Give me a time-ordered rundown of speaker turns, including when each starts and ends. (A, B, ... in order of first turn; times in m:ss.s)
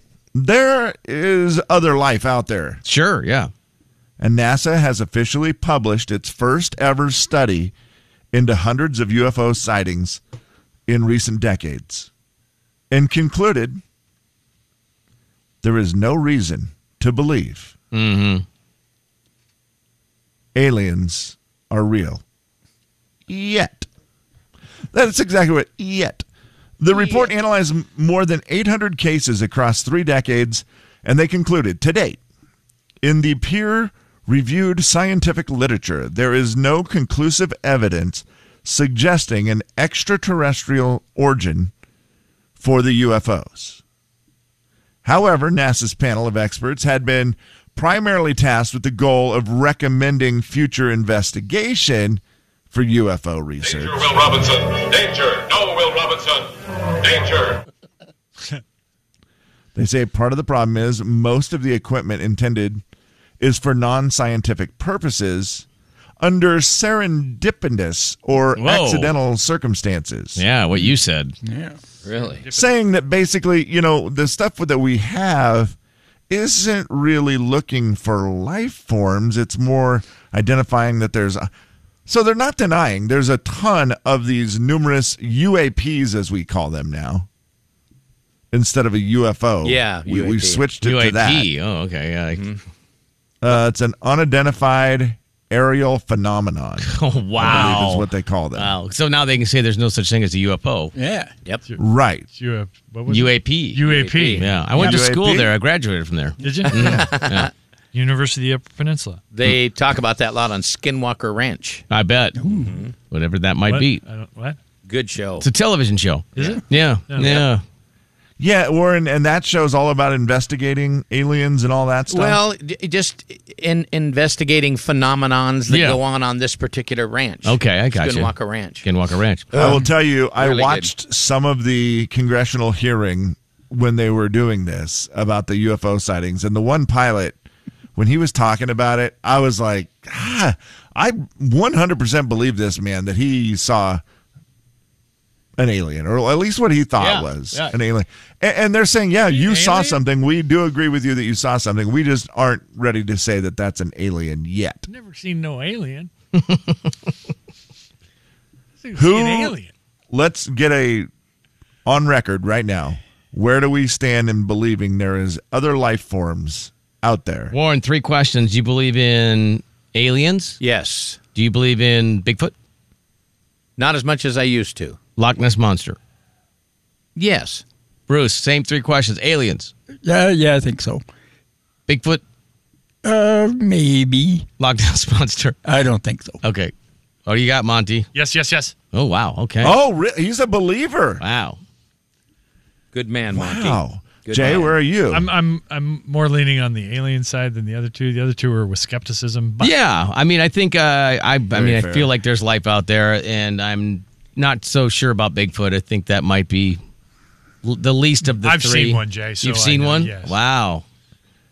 0:00.3-0:02.8 A
0:02.8-0:03.5 B
0:04.2-0:07.7 A
0:08.3-0:10.2 A
0:10.9-0:12.1 A
0:12.9-0:13.8 A
0:15.6-0:17.7 A
0:17.9-0:18.4 B
0:20.6-0:22.2 A
0:23.3-0:23.9 A
0:24.9-0:26.2 A
0:26.8-0:32.2 A
0:26.9-0:27.3 C
0:33.0-0:41.7 A
0:42.6-0:43.8 A
0:45.0-0:54.3 A
0:53.6-0:57.6 D
0:59.8-1:02.8 A
1:03.4-1:05.7 A
1:06.2-1:10.4 A
1:08.6-1:09.1 B
1:10.4-1:11.4 B
1:11.4-1:11.8 E
1:12.0-1:12.4 C
1:12.5-1:15.8 A
1:16.3-1:21.5 A
1:22.1-1:27.3 A
1:28.5-1:31.5 A
1:29.6-1:30.6 C
1:30.8-1:32.5 B
1:32.3-1:32.6 C
1:33.4-1:38.8 A
1:36.8-1:40.9 B
1:41.0-1:41.3 E
1:41.8-1:42.3 A
1:42.3-1:44.6 F
1:43.1-1:47.5 B
1:43.8-1:44.5 C
1:44.7-1:45.5 A
1:46.4-1:47.1 F
1:46.8-1:47.0 A
1:46.8-1:47.5 C
1:47.9-1:49.2 F
1:49.3-1:51.8 C
1:51.9-1:52.4 B
1:52.4-1:52.8 E
1:52.5-1:52.9 C
1:53.0-1:54.0 B
1:53.7-1:54.6 F
1:54.9-1:55.5 C
1:55.4-1:57.6 B
1:56.4-1:57.3 F
1:57.2-1:57.5 C
1:58.4-2:02.4 A
2:02.1-2:08.8 C
2:05.7-2:06.0 B
2:07.4-2:09.5 B
2:09.5-2:10.9 C
2:09.5-2:17.4 A
2:18.0-2:24.0 A
2:25.6-2:34.9 A
2:27.0-2:27.8 B
2:29.3-2:30.0 F
2:34.9-2:36.1 F
2:36.4-2:36.7 B
2:38.8-2:39.7 F
2:39.0-2:39.6 A
2:40.1-2:41.1 A
2:41.9-2:47.5 A
2:47.5-2:50.6 B
2:50.6-2:51.2 C
2:51.4-2:52.5 B
2:53.8-2:55.0 C
2:55.2-2:56.0 B
2:57.2-2:57.6 C
2:58.1-2:59.7 B
3:00.0-3:01.0 E
3:01.9-3:02.2 B
3:03.0-3:04.5 E
3:04.6-3:05.6 B
3:05.6-3:06.4 E
3:06.4-3:06.7 B
3:07.3-3:08.1 B
3:08.1-3:08.8 F
3:08.9-3:09.8 B
3:09.6-3:11.2 A
3:11.2-3:11.6 B
3:12.9-3:14.8 C
3:13.3-3:15.3 A
3:15.1-3:19.7 F
3:19.6-3:26.8 B
3:21.5-3:22.1 A
3:27.6-3:30.8 B
3:28.3-3:30.4 F